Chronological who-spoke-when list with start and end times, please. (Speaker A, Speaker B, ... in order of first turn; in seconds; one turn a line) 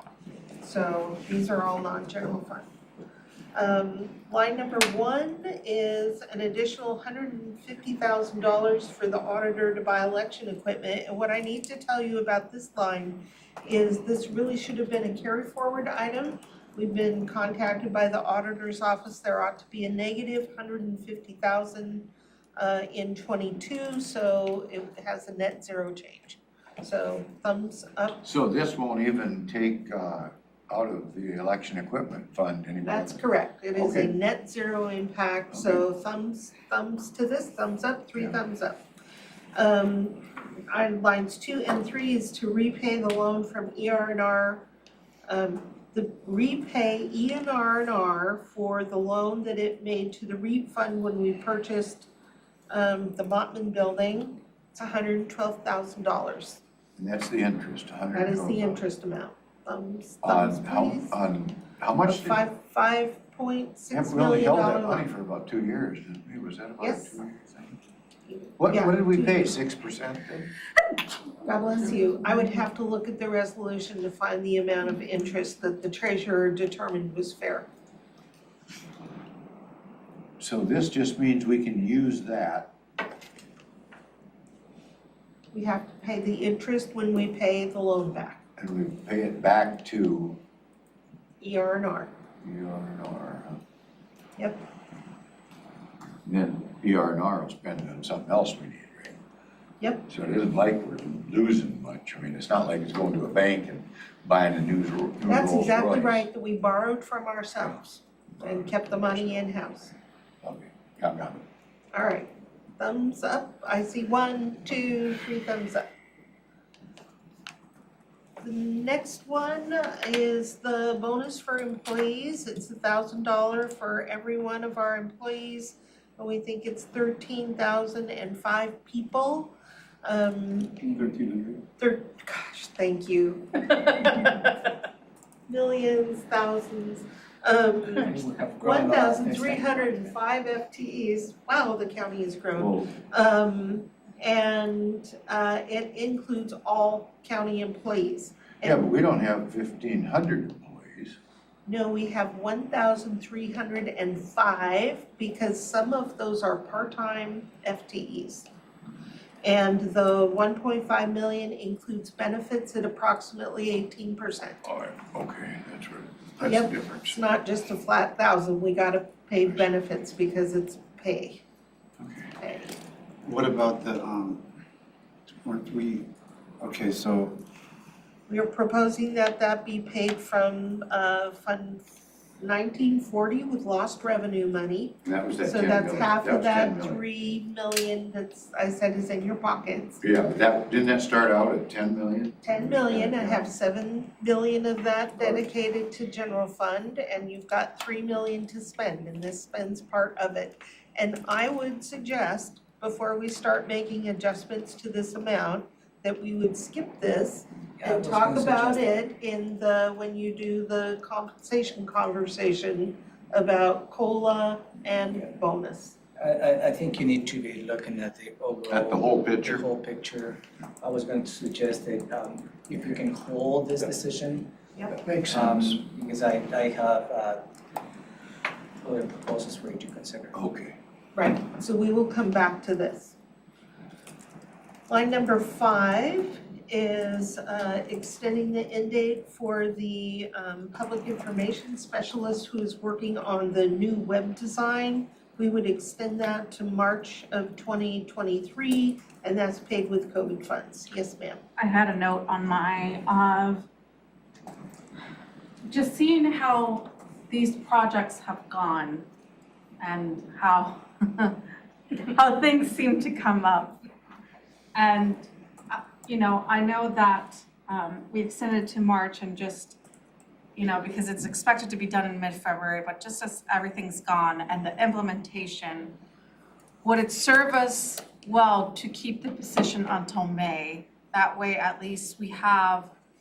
Speaker A: 0.6-2.6
Speaker A: 3.5-28.2
Speaker B: 28.2-33.2
Speaker A: 32.8-38.8
Speaker B: 33.7-34.1
Speaker B: 35.5-35.8
Speaker A: 39.5-44.6
Speaker A: 45.3-52.1
Speaker A: 52.7-56.6
Speaker B: 57.0-58.8
Speaker A: 58.1-61.2
Speaker B: 60.2-62.4
Speaker A: 62.0-65.1
Speaker B: 63.9-67.8
Speaker A: 66.8-67.1
Speaker A: 68.3-69.4
Speaker B: 68.6-70.5
Speaker A: 71.4-77.7
Speaker B: 80.4-82.7
Speaker A: 85.5-88.4
Speaker B: 88.6-90.4
Speaker A: 91.4-92.1
Speaker B: 92.4-93.6
Speaker B: 96.2-99.2
Speaker B: 100.1-106.3
Speaker A: 105.2-110.0
Speaker B: 108.4-108.9
Speaker B: 110.4-111.4
Speaker A: 111.9-115.8
Speaker A: 118.4-130.8
Speaker C: 130.9-131.1
Speaker D: 131.2-131.6
Speaker A: 131.8-134.6
Speaker A: 135.5-148.8
Speaker C: 137.9-140.1
Speaker B: 142.5-142.9
Speaker B: 148.6-151.2
Speaker A: 151.7-158.5
Speaker A: 159.4-164.6
Speaker B: 164.6-167.2
Speaker A: 166.4-171.4
Speaker B: 172.0-172.3
Speaker A: 172.3-172.8
Speaker D: 173.2-174.4
Speaker D: 175.4-176.1
Speaker D: 176.6-177.4
Speaker A: 178.3-190.0
Speaker B: 185.0-187.0
Speaker B: 190.0-193.5
Speaker A: 192.4-215.9
Speaker B: 195.2-195.4
Speaker C: 207.8-208.9
Speaker C: 216.2-224.5
Speaker B: 218.7-219.7
Speaker B: 224.9-225.8
Speaker C: 225.3-227.4
Speaker C: 228.8-230.4
Speaker B: 230.3-230.8
Speaker A: 231.1-233.2
Speaker A: 234.9-251.4
Speaker E: 251.6-253.7
Speaker E: 255.7-259.1
Speaker E: 259.8-261.4
Speaker E: 261.9-263.8
Speaker E: 264.7-269.8
Speaker E: 270.6-275.9
Speaker E: 276.8-282.9